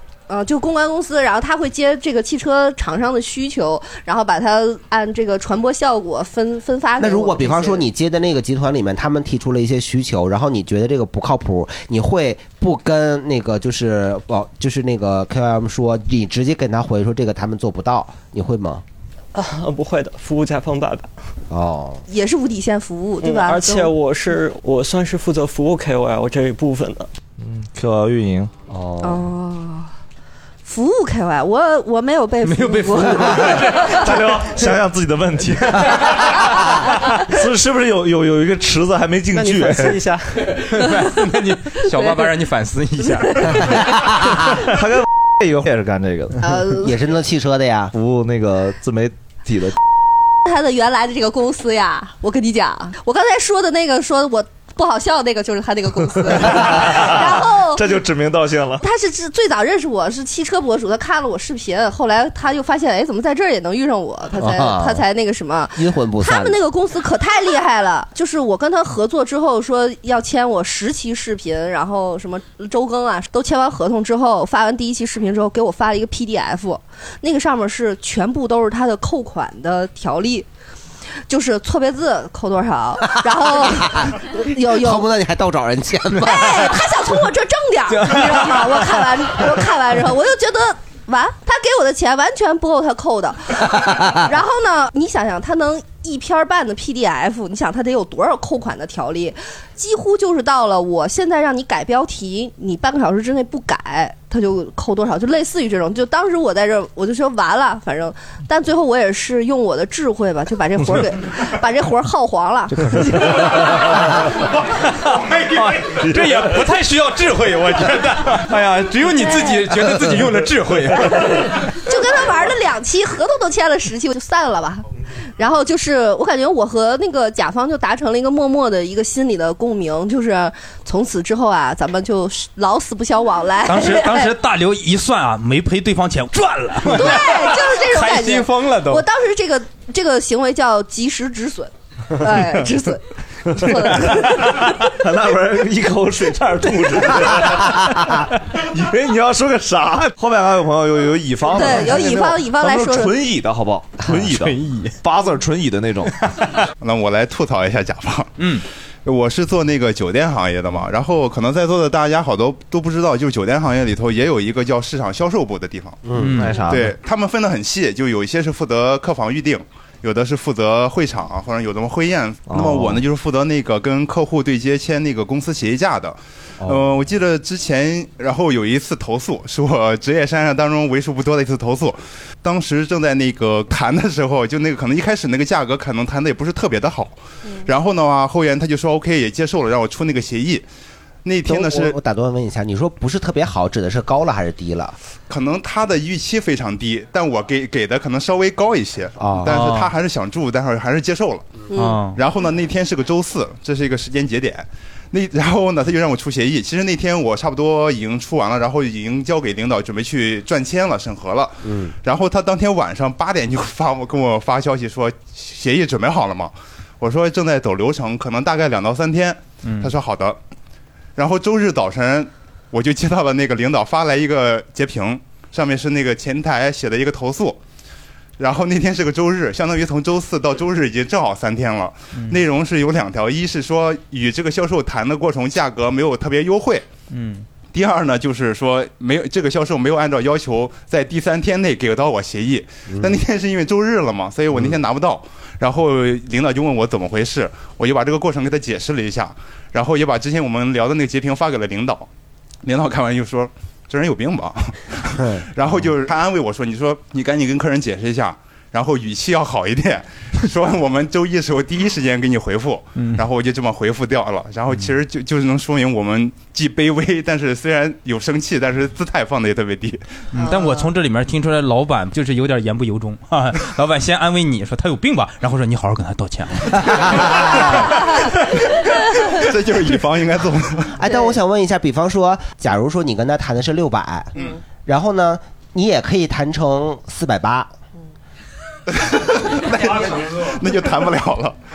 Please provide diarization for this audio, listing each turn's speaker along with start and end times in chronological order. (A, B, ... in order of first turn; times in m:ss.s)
0:00.3-0:07.8 A
0:07.0-0:18.8 B
0:19.3-0:21.1 C
0:21.5-0:22.0 B
0:22.1-0:23.9 A
0:23.2-0:27.1 C
0:27.4-0:28.5 D
0:28.7-0:29.2 B
0:29.0-0:29.9 A
0:30.6-0:34.1 A
0:32.5-0:33.5 E
0:33.3-0:33.8 F
0:33.4-0:36.5 D
0:37.2-0:40.0 D
0:39.3-0:40.6 C
0:40.7-0:43.9 E
0:41.9-0:42.2 A
0:43.3-0:43.6 A
0:44.4-0:46.4 D
0:46.4-0:46.9 A
0:46.6-0:47.9 B
0:47.9-0:49.8 D
0:50.4-0:57.8 A
0:56.2-0:58.8 D
0:58.8-1:20.5 A
1:04.4-1:05.0 B
1:05.7-1:06.6 B
1:21.3-1:25.1 A
1:23.6-1:24.2 B
1:24.7-1:26.7 B
1:26.2-1:53.0 A
1:55.0-2:01.5 F
1:55.6-1:56.4 D
1:59.2-1:59.6 A
2:01.8-2:04.8 A
2:05.4-2:14.3 A
2:13.6-2:17.2 E
2:16.4-2:17.2 F
2:16.8-2:24.8 A
2:17.9-2:19.0 F
2:23.8-2:36.1 D
2:31.5-2:33.1 A
2:34.4-2:34.9 F
2:36.8-2:38.4 G
2:38.4-2:38.6 E
2:39.0-2:46.0 G
2:46.0-2:46.6 B
2:46.1-2:46.8 E
2:46.2-2:46.9 D
2:46.7-3:10.6 G
2:52.5-2:53.0 D
3:11.2-3:12.0 G
3:11.4-3:15.0 B
3:15.3-3:21.6 G
3:19.2-3:19.5 B
3:19.5-3:19.8 E
3:21.7-3:22.0 A
3:21.7-3:22.2 E
3:22.1-3:40.4 G
3:31.6-3:31.9 B
3:39.6-3:39.9 E
3:41.2-3:47.6 G
3:48.4-3:56.9 G
3:57.1-3:57.4 E
3:57.7-4:12.1 G
4:02.9-4:03.2 B
4:12.6-4:30.0 G
4:15.2-4:15.4 B
4:23.0-4:23.2 E
4:30.3-4:37.6 E
4:37.1-4:37.7 B
4:39.3-4:40.9 G
4:40.9-4:47.7 B
4:48.9-4:51.6 G